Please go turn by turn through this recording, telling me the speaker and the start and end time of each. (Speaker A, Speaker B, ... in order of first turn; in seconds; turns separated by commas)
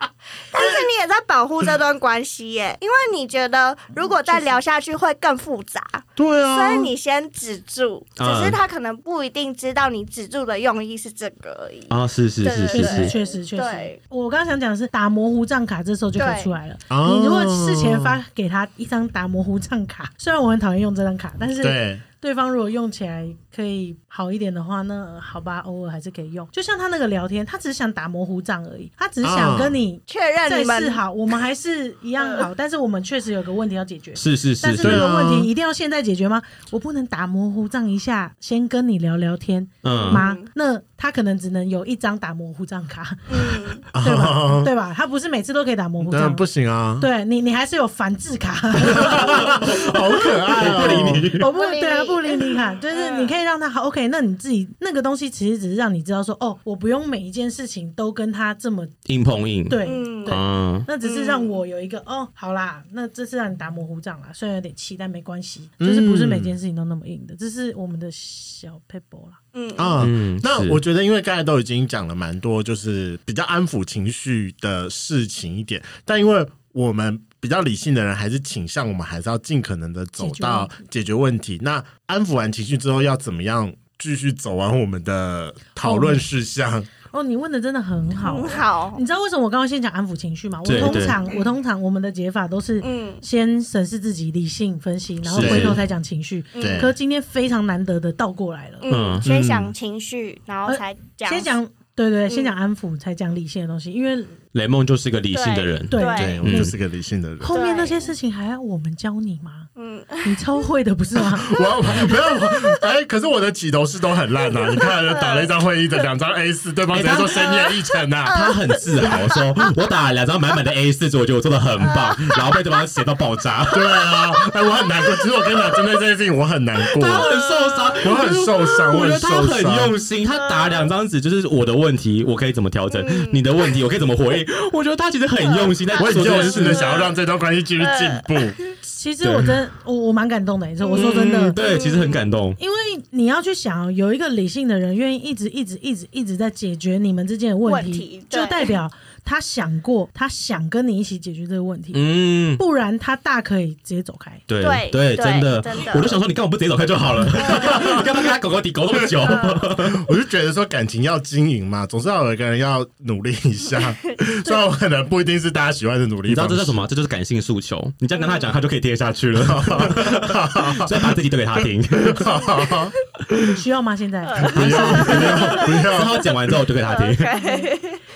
Speaker A: 0.5-14.0, Speaker B: 4.0-4.6, Speaker C: 6.2-6.9, Speaker D: 8.2-8.6, Speaker D: 11.9-13.1, Speaker B: 12.7-46.5, Speaker A: 16.1-16.5, Speaker C: 16.9-18.2, Speaker C: 21.6-22.0, Speaker C: 29.2-29.8, Speaker A: 30.1-31.0, Speaker A: 32.2-32.5, Speaker D: 34.1-35.1, Speaker C: 34.8-35.5, Speaker D: 39.8-40.2, Speaker A: 39.9-40.5, Speaker A: 43.3-43.8, Speaker C: 43.9-44.7, Speaker C: 46.0-47.1, Speaker B: 47.0-49.9, Speaker C: 48.8-51.4, Speaker D: 49.0-51.4, Speaker B: 50.6-58.9, Speaker A: 51.4-53.4, Speaker D: 59.1-60.9, Speaker B: 59.7-69.4, Speaker A: 59.8-60.4, Speaker A: 61.0-61.5, Speaker C: 65.8-66.6, Speaker A: 69.5-70.0, Speaker C: 69.8-86.9, Speaker D: 70.0-70.8, Speaker B: 80.2-80.8, Speaker B: 85.8-86.2, Speaker B: 87.1-98.9, Speaker A: 88.2-89.0, Speaker D: 90.6-91.2, Speaker A: 90.8-91.4, Speaker A: 92.8-93.2, Speaker D: 95.2-95.8, Speaker C: 95.3-95.8, Speaker A: 96.5-96.9, Speaker C: 96.6-96.9, Speaker A: 98.8-101.5, Speaker D: 98.9-99.4, Speaker C: 99.2-99.7, Speaker B: 100.7-104.3, Speaker A: 102.3-102.5, Speaker D: 104.5-106.7, Speaker A: 105.3-106.4, Speaker B: 105.9-106.7, Speaker C: 106.1-107.6, Speaker B: 107.4-109.7, Speaker A: 107.5-108.1, Speaker A: 109.8-110.4, Speaker B: 110.2-111.6, Speaker C: 111.3-118.4, Speaker A: 111.6-112.7, Speaker A: 114.5-115.5, Speaker D: 116.9-117.7, Speaker A: 117.4-119.4, Speaker D: 118.3-124.1, Speaker A: 121.8-122.8, Speaker C: 123.7-127.3, Speaker A: 125.1-125.8, Speaker D: 126.9-136.9, Speaker A: 127.0-128.1, Speaker C: 128.0-129.9, Speaker A: 130.3-130.9, Speaker A: 132.9-133.5, Speaker A: 135.4-137.2, Speaker C: 136.0-138.6, Speaker A: 137.8-138.7, Speaker B: 138.8-141.6, Speaker D: 139.2-139.6, Speaker A: 140.8-142.2, Speaker D: 140.9-142.6, Speaker B: 142.6-154.4, Speaker A: 147.6-148.8, Speaker D: 151.9-152.6, Speaker D: 154.5-160.0, Speaker A: 154.6-156.2, Speaker A: 157.3-158.0, Speaker C: 157.5-158.1, Speaker C: 158.9-166.8, Speaker A: 159.2-159.6, Speaker D: 166.3-172.4, Speaker A: 168.2-168.5, Speaker C: 169.4-173.0, Speaker B: 173.5-175.6, Speaker A: 174.2-176.3, Speaker C: 174.4-176.3, Speaker D: 174.6-177.4, Speaker A: 176.8-178.0, Speaker B: 177.4-177.7